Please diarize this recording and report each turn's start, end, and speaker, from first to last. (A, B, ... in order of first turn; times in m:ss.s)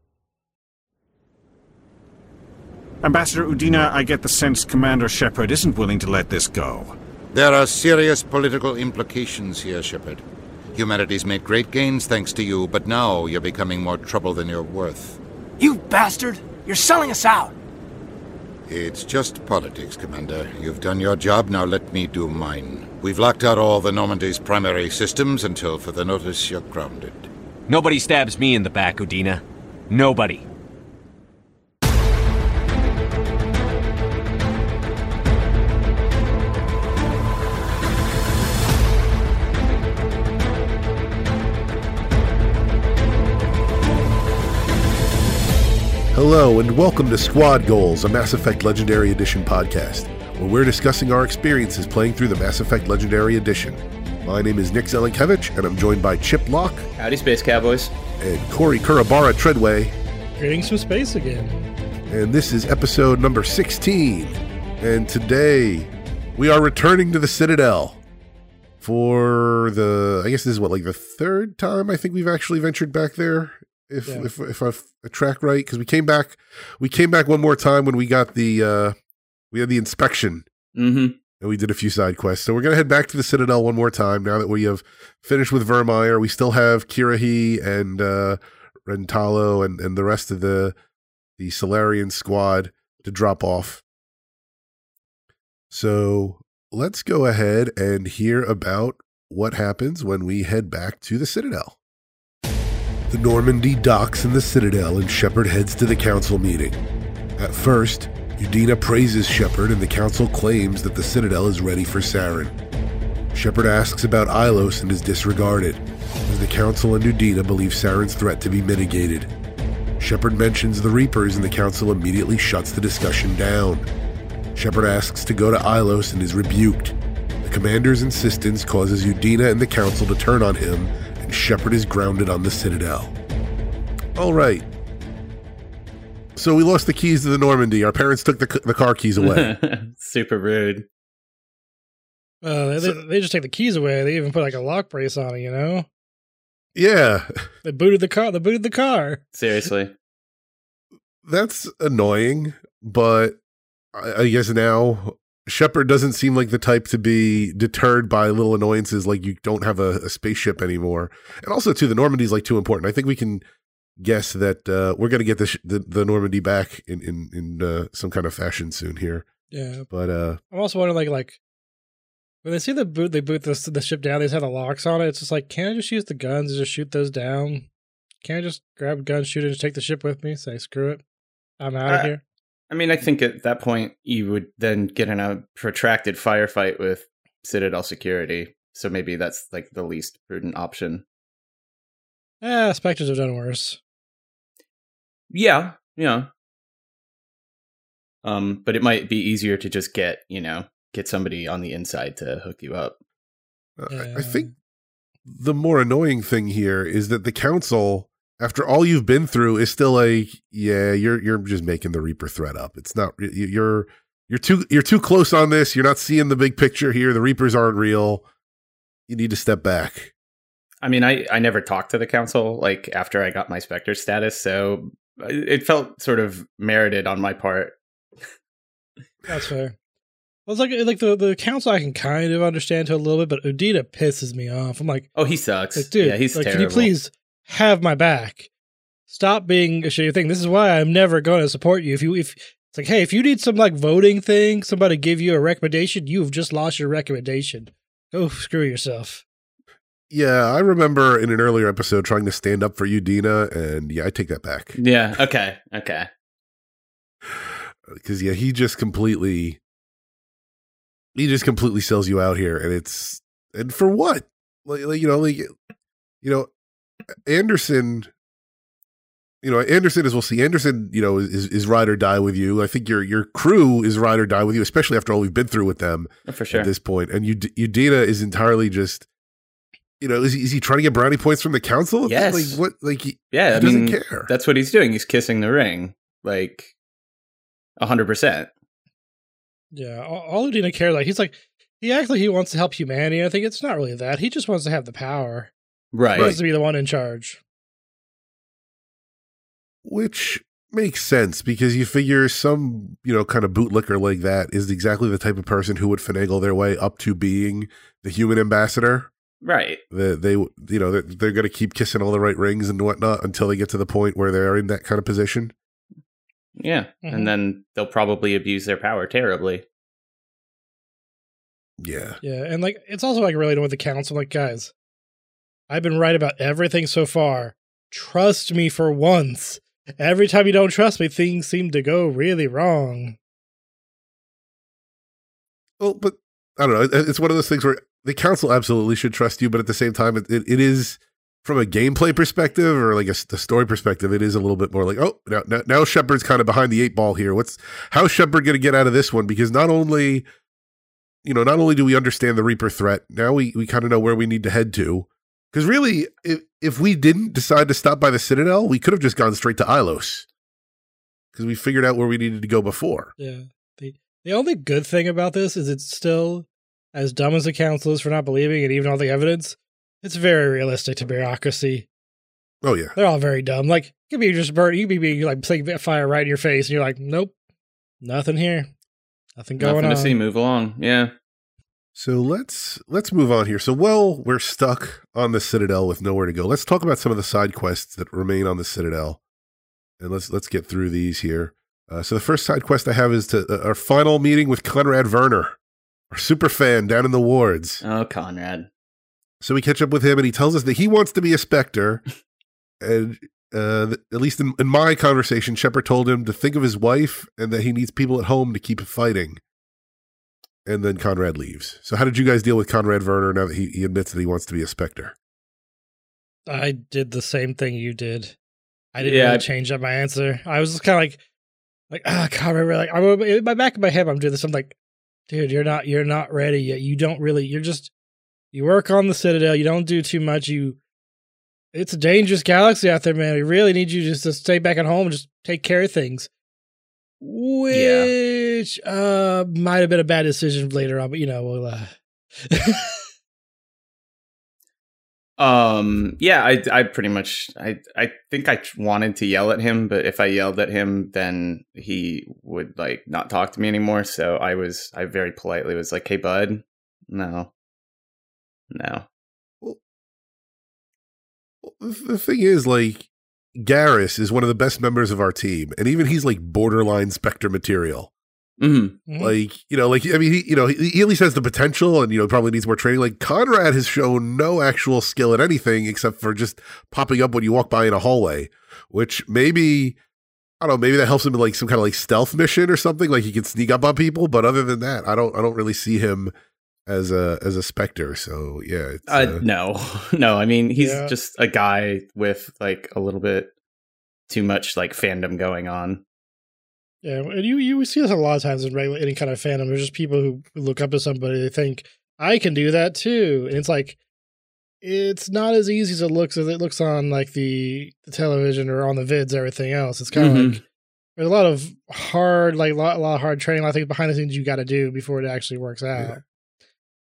0:03.0-0:06.9 A
0:05.1-0:06.9 B
0:07.3-0:15.2 C
0:15.6-0:17.5 D
0:18.6-0:27.3 C
0:27.7-0:30.5 B
0:46.1-0:56.9 E
0:57.0-0:57.9 F
0:58.2-1:00.0 E
1:00.4-1:01.6 G
1:02.1-1:08.0 E
1:08.8-1:18.9 E
1:19.5-1:20.4 E
1:20.7-1:21.2 F
1:21.4-1:30.8 E
1:31.4-1:33.8 E
1:35.7-1:41.8 E
1:43.1-1:46.8 E
1:47.4-1:52.5 E
1:53.3-1:59.3 E
2:00.0-2:03.9 E
2:04.5-2:13.1 E
2:14.2-2:14.7 E
2:16.4-2:19.5 E
2:19.2-2:20.8 F
2:22.4-2:25.9 G
2:26.7-2:27.4 E
2:27.6-2:29.2 G
2:29.3-2:29.9 F
2:31.2-2:33.4 E
2:33.9-2:43.4 E
2:44.0-2:49.2 E
2:49.5-2:49.9 G
2:49.9-2:50.4 E
2:50.5-2:51.4 G
2:52.4-2:57.7 G
2:58.2-3:01.0 G
3:01.6-3:02.2 G
3:02.7-3:11.0 F
3:12.4-3:13.8 G
3:15.3-3:16.3 F
3:18.2-3:23.0 F
3:23.8-3:24.5 E
3:23.9-3:24.5 G
3:25.2-3:38.2 E
3:39.1-3:40.1 E
3:40.8-3:47.8 F
3:49.3-3:49.7 G
3:50.5-3:55.1 G
3:55.2-3:56.9 F
3:55.8-3:58.5 G
3:59.1-4:09.2 G
4:10.1-4:14.8 E
4:14.8-4:16.1 F
4:17.3-4:19.6 E
4:21.1-4:25.5 E
4:26.2-4:26.5 E
4:27.2-4:28.1 E
4:29.4-4:39.1 E
4:36.3-4:36.7 F
4:40.0-4:44.3 E
4:42.0-4:42.6 F
4:43.3-4:46.7 F
4:47.8-4:48.5 F
4:49.7-4:55.5 G
4:55.9-4:56.4 F
4:56.1-4:57.4 G
4:59.8-5:09.1 E
5:09.4-5:09.8 F
5:09.9-5:15.5 E
5:16.6-5:19.6 F
5:17.0-5:17.3 G
5:21.8-5:22.2 E
5:22.2-5:24.7 G
5:25.7-5:33.2 G
5:35.8-5:50.2 E
5:51.2-6:00.2 E
6:01.3-6:03.1 E
6:03.2-6:11.9 G
6:12.6-6:12.9 E
6:13.0-6:17.3 G
6:18.0-6:18.7 G
6:19.4-6:20.1 G
6:19.6-6:21.1 F
6:21.9-6:29.2 E
6:30.0-6:35.6 E
6:36.1-6:37.8 E
6:37.8-6:38.7 F
6:39.4-6:42.0 E
6:42.8-6:49.4 E
6:50.6-6:55.1 E
6:56.5-6:58.4 G
6:58.9-7:01.2 G
6:59.0-6:59.4 F
7:01.9-7:04.7 G
7:05.3-7:07.9 G
7:08.5-7:10.8 G
7:11.7-7:16.3 G
7:17.2-7:23.0 G
7:17.7-7:18.1 F
7:25.4-7:37.5 F
7:38.7-7:39.0 F
7:41.6-7:48.1 E
7:48.6-7:49.0 F
7:49.1-7:49.3 G
7:49.2-8:00.0 E
8:00.6-8:06.3 E
8:06.8-8:09.4 E
8:09.1-8:13.5 F
8:10.7-8:11.1 G
8:14.3-8:16.0 F
8:17.0-8:24.0 G
8:24.8-8:30.6 G
8:30.1-8:30.6 F
8:31.2-8:36.2 G